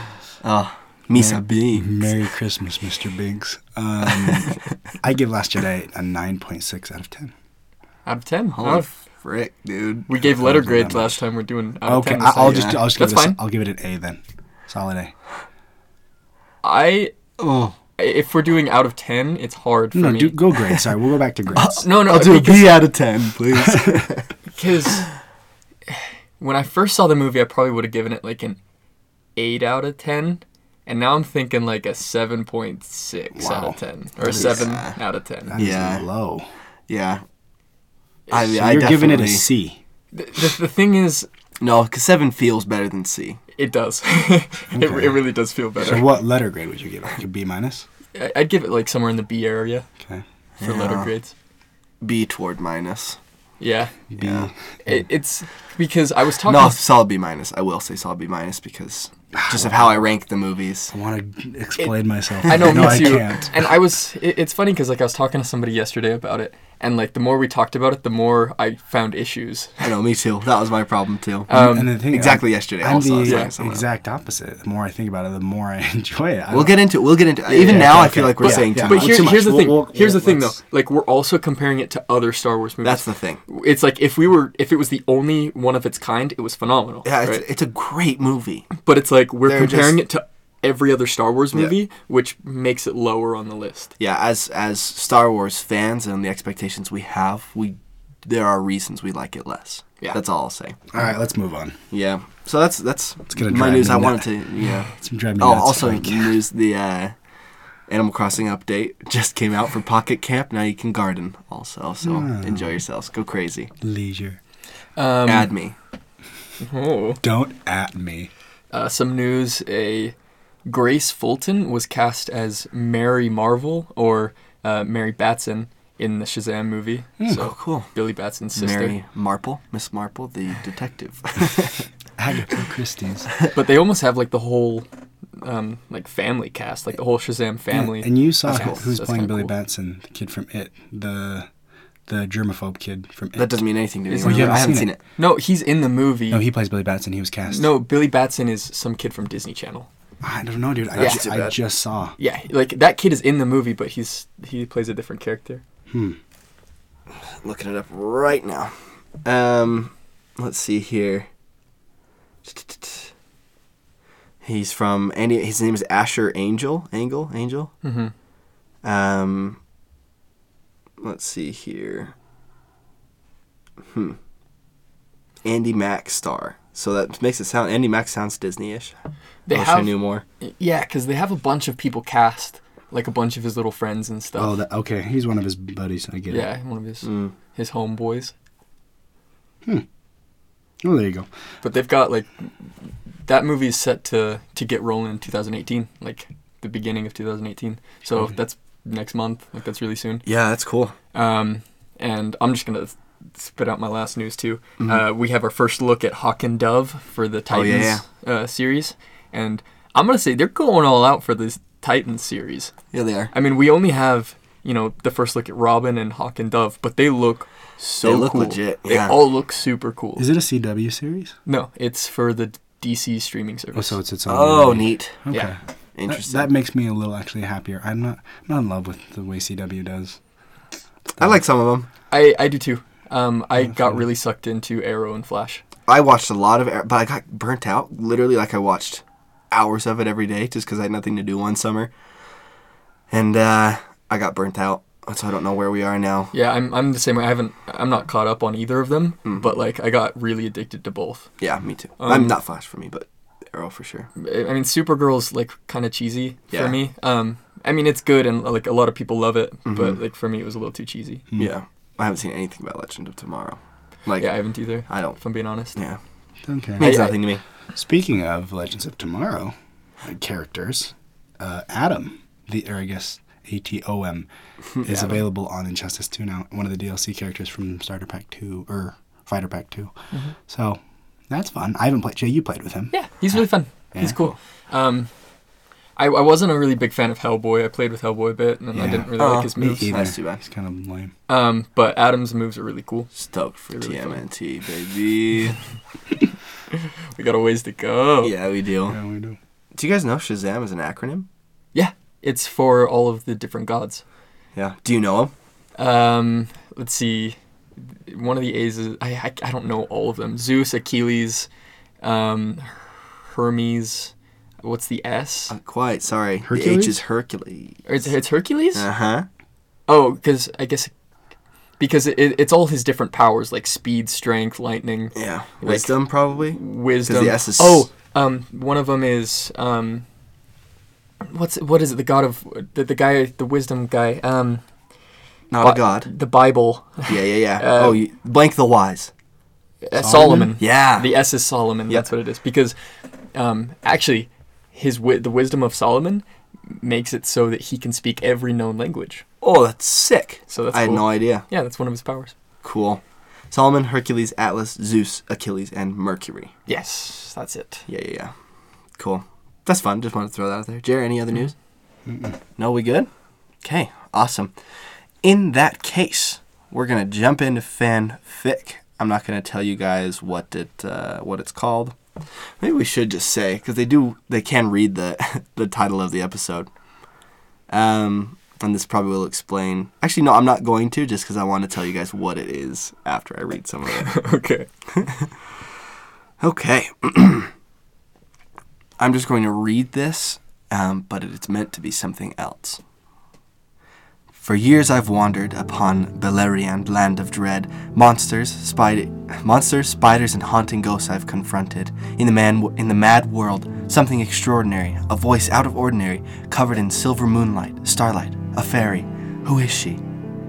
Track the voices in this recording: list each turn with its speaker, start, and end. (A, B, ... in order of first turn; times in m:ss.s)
0:00.4-0:02.1 A
0:01.1-0:07.3 B
0:08.0-0:08.9 C
0:08.5-0:10.1 A
0:10.1-0:13.4 C
0:10.3-0:11.2 B
0:11.8-0:15.1 B
0:12.4-0:12.8 A
0:16.6-0:17.1 C
0:17.4-0:17.8 A
0:18.0-0:20.4 C
0:19.9-0:21.8 B
0:21.6-0:24.3 A
0:21.8-0:22.8 C
0:24.5-0:25.1 C
0:25.9-0:28.6 C
0:29.4-0:35.5 C
0:33.4-0:34.7 B
0:34.2-0:35.0 A
0:35.5-0:36.5 B
0:35.5-0:36.0 A
0:36.9-0:37.2 A
0:38.3-0:39.5 A
0:38.4-0:39.8 B
0:40.1-0:41.3 C
0:41.6-0:43.4 A
0:43.5-0:46.0 C
0:44.7-0:45.2 B
0:45.8-0:47.8 B
0:48.1-0:49.8 C
0:50.6-0:51.1 A
0:50.6-0:51.3 C
0:52.0-0:53.2 A
0:53.6-0:53.9 C
0:54.1-0:55.0 B
0:54.2-0:54.5 A
0:54.8-0:56.8 C
0:56.4-1:00.9 A
0:59.4-1:00.0 B
1:00.9-1:03.5 B
1:01.8-1:09.9 C
1:02.6-1:03.2 A
1:09.8-1:13.8 A
1:11.5-1:11.9 C
1:11.5-1:16.8 B
1:16.5-1:19.3 A
1:17.4-1:20.6 B
1:18.4-1:27.4 C
1:22.8-1:23.4 A
1:27.0-1:28.7 A
1:28.8-1:33.9 C
1:29.4-1:30.0 A
1:34.0-1:40.8 A
1:40.9-1:41.8 B
1:41.9-1:47.1 A
1:43.3-1:44.3 B
1:44.9-1:46.4 B
1:47.9-1:53.7 A
1:52.0-1:52.7 B
1:53.8-1:54.4 B
1:55.0-1:55.5 C
1:55.2-1:55.8 A
1:56.6-1:57.2 C
1:57.2-1:58.3 B
1:58.7-2:00.1 C
2:00.6-2:08.9 C
2:07.4-2:07.9 A
2:08.5-2:11.8 A
2:12.2-2:13.3 B
2:13.5-2:14.9 C
2:15.4-2:19.5 C
2:17.7-2:21.5 B
2:18.5-2:18.8 A
2:22.1-2:23.6 B
2:23.4-2:25.0 A
2:24.1-2:24.6 C
2:24.2-2:24.9 B
2:25.2-2:26.4 C
2:26.3-2:27.7 B
2:27.5-2:29.9 C
2:30.2-2:32.1 B
2:31.0-2:31.6 A
2:31.0-2:31.5 C
2:32.2-2:35.6 C
2:35.9-2:36.2 B
2:37.2-2:41.3 A
2:42.4-2:43.1 A
2:44.4-2:47.7 A
2:47.8-2:48.1 C
2:48.8-2:49.6 A
2:51.0-2:52.1 A
2:53.9-2:54.2 A
2:55.4-2:58.9 A
2:59.5-3:04.5 C
2:59.5-3:00.2 A
3:04.3-3:06.5 B
3:06.3-3:08.3 C
3:07.0-3:07.3 A
3:10.8-3:11.3 B
3:11.6-3:20.2 C
3:20.2-3:20.9 A
3:21.1-3:32.7 C
3:27.5-3:28.0 A
3:32.9-3:33.3 A
3:33.3-3:40.2 C
3:38.0-3:39.2 A
3:40.2-3:41.3 B
3:41.4-3:44.0 C
3:43.7-3:45.6 B
3:44.3-3:45.2 A
3:45.9-3:46.5 A
3:46.1-3:50.2 B
3:51.2-3:51.9 A
3:52.1-3:55.6 C
3:53.6-3:54.0 B
3:55.9-4:01.9 A
4:03.1-4:06.3 A
4:06.3-4:11.3 C
4:11.4-4:14.1 A
4:12.0-4:12.3 C
4:14.2-4:21.2 C
4:16.5-4:16.8 A
4:19.7-4:20.0 A
4:21.4-4:24.3 A
4:24.2-4:25.8 C
4:24.9-4:25.2 A
4:26.4-4:26.9 B
4:26.8-4:27.4 A
4:26.8-4:27.2 C
4:27.7-4:34.3 B
4:34.8-4:39.9 B
4:34.8-4:35.2 C
4:40.5-4:42.9 B
4:42.9-4:45.1 C
4:43.9-4:44.2 B
4:46.0-4:49.9 C
4:48.7-4:51.1 B
4:49.2-4:50.4 A
4:51.3-4:53.1 C
4:53.2-4:55.6 A
4:53.7-4:54.2 C
4:56.7-4:58.3 C
4:58.2-4:59.0 A
4:58.9-4:59.4 B
4:59.7-5:01.3 A
5:01.7-5:04.0 C
5:04.5-5:05.3 A
5:05.8-5:11.5 C
5:12.0-5:15.5 C
5:15.5-5:17.8 A
5:16.4-5:17.0 B
5:17.8-5:18.8 C
5:18.7-5:19.3 A
5:19.9-5:20.9 C
5:21.8-5:30.0 C
5:25.1-5:27.9 A
5:31.3-5:34.6 C
5:35.5-5:36.1 A
5:35.6-5:38.0 C
5:37.1-5:39.1 A
5:39.8-5:42.7 C
5:40.0-5:40.5 B
5:40.6-5:41.2 A
5:43.3-5:49.2 C
5:49.4-5:51.4 A
5:50.5-5:52.3 C
5:52.6-5:56.5 A
5:56.7-5:57.8 C
5:57.9-5:58.3 A
5:59.0-6:01.5 A
6:02.1-6:02.4 B
6:02.6-6:03.1 A
6:03.6-6:04.5 A
6:05.2-6:12.0 A
6:12.6-6:16.7 A
6:17.7-6:24.2 A
6:23.9-6:24.7 C
6:24.9-6:25.3 A
6:26.4-6:27.5 A
6:29.0-6:32.8 A
6:34.3-6:50.0 A